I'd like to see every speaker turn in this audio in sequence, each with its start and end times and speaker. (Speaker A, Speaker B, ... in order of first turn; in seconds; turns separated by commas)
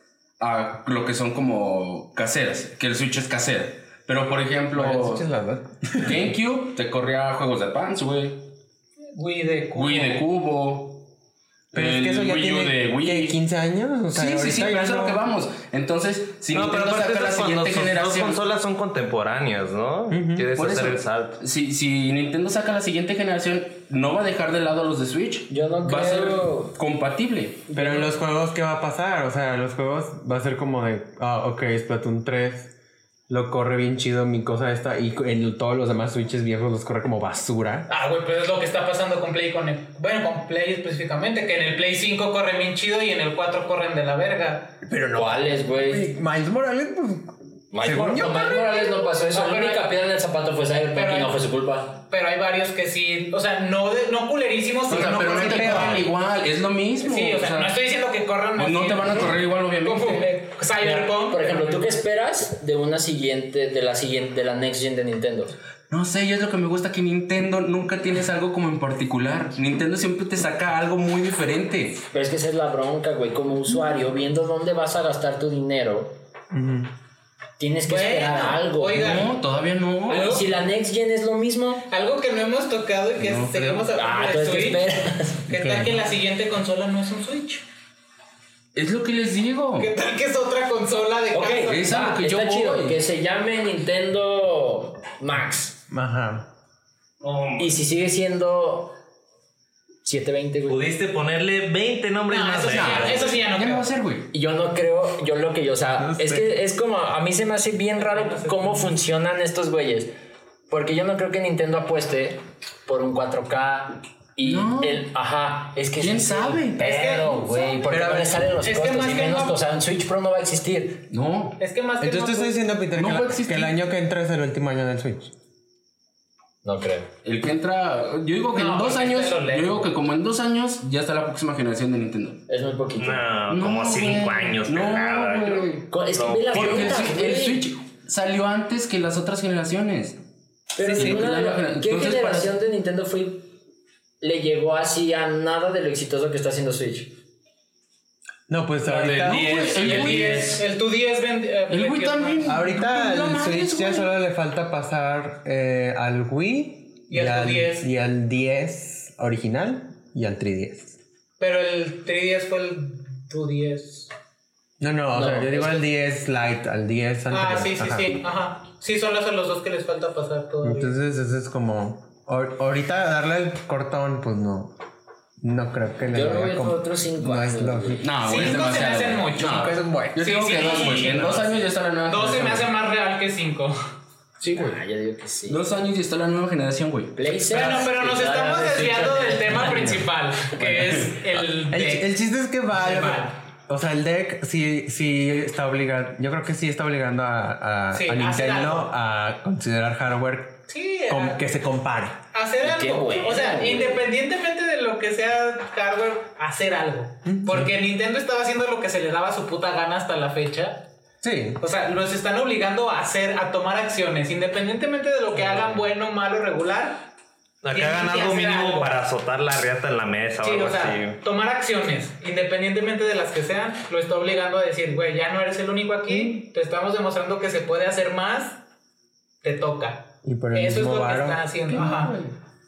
Speaker A: 0.4-5.2, Speaker B: 4.7-6.3, Speaker A: 6.0-8.5, Speaker C: 9.1-10.2, Speaker A: 9.7-11.1, Speaker A: 11.7-13.4, Speaker B: 11.7-15.2, Speaker A: 14.1-18.4, Speaker D: 16.5-21.4, Speaker B: 20.1-20.5, Speaker A: 20.5-27.7, Speaker E: 25.5-26.8, Speaker E: 27.7-28.1, Speaker B: 27.7-32.7, Speaker B: 33.3-37.9, Speaker C: 37.9-44.8, Speaker B: 44.8-48.5, Speaker E: 45.1-46.1, Speaker E: 47.7-52.0, Speaker C: 48.2-49.9, Speaker C: 50.9-51.4, Speaker C: 52.0-56.1, Speaker A: 54.9-57.8, Speaker B: 55.3-56.1, Speaker C: 57.0-61.9, Speaker A: 58.6-60.3, Speaker E: 60.8-65.5, Speaker A: 65.9-72.0, Speaker E: 72.1-76.2, Speaker B: 76.5-76.9, Speaker E: 77.6-79.2, Speaker C: 77.8-79.4, Speaker A: 78.9-80.3, Speaker C: 80.1-80.5, Speaker E: 80.1-81.8, Speaker C: 81.9-84.9, Speaker A: 83.2-83.7, Speaker E: 83.9-85.5, Speaker C: 85.4-87.6, Speaker B: 85.5-85.9, Speaker A: 88.7-89.9, Speaker C: 89.8-92.0, Speaker E: 91.3-95.8, Speaker A: 91.6-93.0, Speaker B: 95.9-96.5, Speaker D: 97.2-97.8, Speaker E: 97.6-99.0, Speaker E: 100.0-100.8, Speaker D: 100.7-103.4, Speaker C: 102.3-103.9, Speaker A: 102.6-104.3, Speaker E: 104.3-110.1, Speaker B: 106.0-106.5, Speaker C: 108.0-108.9, Speaker E: 110.7-121.0, Speaker A: 114.4-115.1, Speaker A: 116.0-116.8, Speaker C: 116.8-118.1, Speaker B: 117.9-118.5, Speaker C: 118.6-119.6, Speaker A: 121.1-121.6, Speaker C: 121.6-122.6, Speaker B: 122.0-125.3, Speaker A: 122.9-123.7, Speaker E: 126.6-127.1, Speaker A: 127.2-132.4, Speaker C: 128.5-129.9, Speaker E: 132.5-133.3, Speaker D: 133.0-137.0, Speaker A: 133.5-135.9, Speaker E: 135.9-137.6, Speaker A: 136.5-140.2, Speaker E: 140.7-143.5, Speaker A: 140.8-142.5, Speaker B: 140.9-141.2, Speaker E: 144.2-147.1, Speaker B: 148.5-150.0, Speaker A: 148.9-150.7, Speaker D: 149.5-150.4, Speaker C: 149.5-152.6, Speaker A: 151.7-154.1, Speaker B: 152.4-161.0, Speaker C: 157.1-157.9, Speaker C: 161.4-164.1, Speaker B: 164.8-168.2, Speaker E: 165.1-165.8, Speaker C: 167.3-170.9, Speaker B: 170.6-174.7, Speaker B: 175.4-178.1, Speaker E: 176.1-178.1, Speaker A: 178.0-182.7, Speaker C: 178.2-183.8, Speaker B: 179.4-180.3, Speaker B: 180.8-181.3, Speaker A: 184.4-184.7, Speaker E: 184.5-185.6, Speaker A: 185.5-187.2, Speaker E: 187.1-190.0, Speaker C: 187.5-192.1, Speaker A: 190.6-191.1, Speaker B: 191.7-202.2, Speaker C: 192.7-193.4, Speaker C: 197.9-198.9, Speaker C: 200.7-201.4, Speaker C: 202.3-210.9, Speaker E: 202.6-204.1, Speaker B: 207.2-207.7, Speaker B: 211.2-211.6, Speaker C: 211.6-217.1, Speaker D: 217.6-221.2, Speaker C: 217.7-219.0, Speaker C: 220.4-228.6, Speaker C: 229.4-232.2, Speaker B: 230.2-232.1, Speaker A: 231.7-232.3